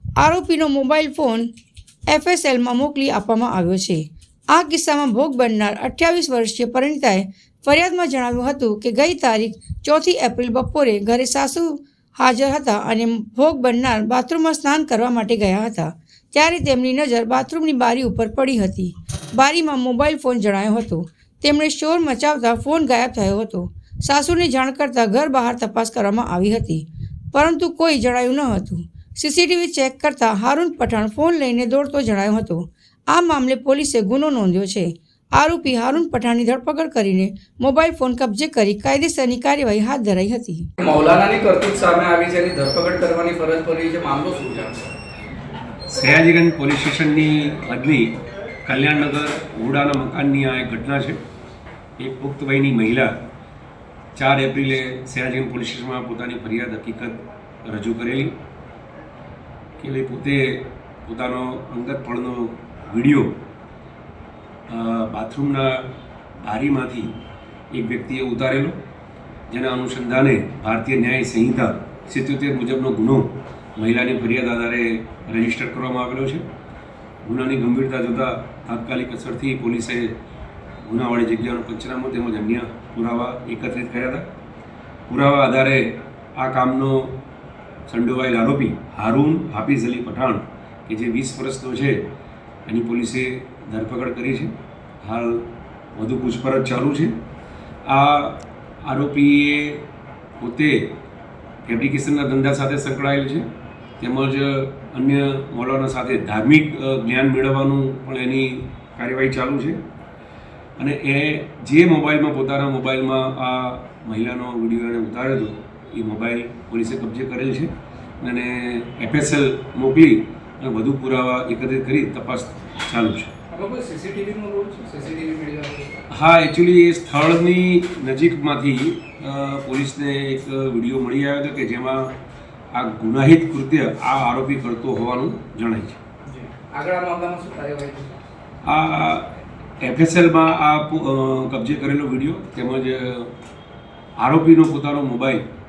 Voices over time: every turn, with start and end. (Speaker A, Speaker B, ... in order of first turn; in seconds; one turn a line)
Speaker A: 0.2-1.5
Speaker A: 2.1-40.7
Speaker B: 40.8-44.9
Speaker C: 45.9-48.1
Speaker C: 48.6-51.2
Speaker C: 52.0-53.1
Speaker C: 54.2-58.3
Speaker C: 59.8-63.4
Speaker C: 64.7-65.9
Speaker C: 66.4-67.2
Speaker C: 67.7-68.8
Speaker C: 69.5-76.5
Speaker C: 77.2-80.1
Speaker C: 80.8-84.3
Speaker C: 85.1-87.2
Speaker C: 87.9-92.0
Speaker C: 92.7-97.1
Speaker C: 97.9-99.8
Speaker C: 100.4-100.9
Speaker C: 101.7-103.5
Speaker C: 104.0-109.8
Speaker C: 110.8-123.3
Speaker B: 123.5-126.0
Speaker C: 126.1-132.1
Speaker C: 132.7-136.0
Speaker B: 136.3-138.2
Speaker C: 138.6-143.3
Speaker C: 144.2-145.4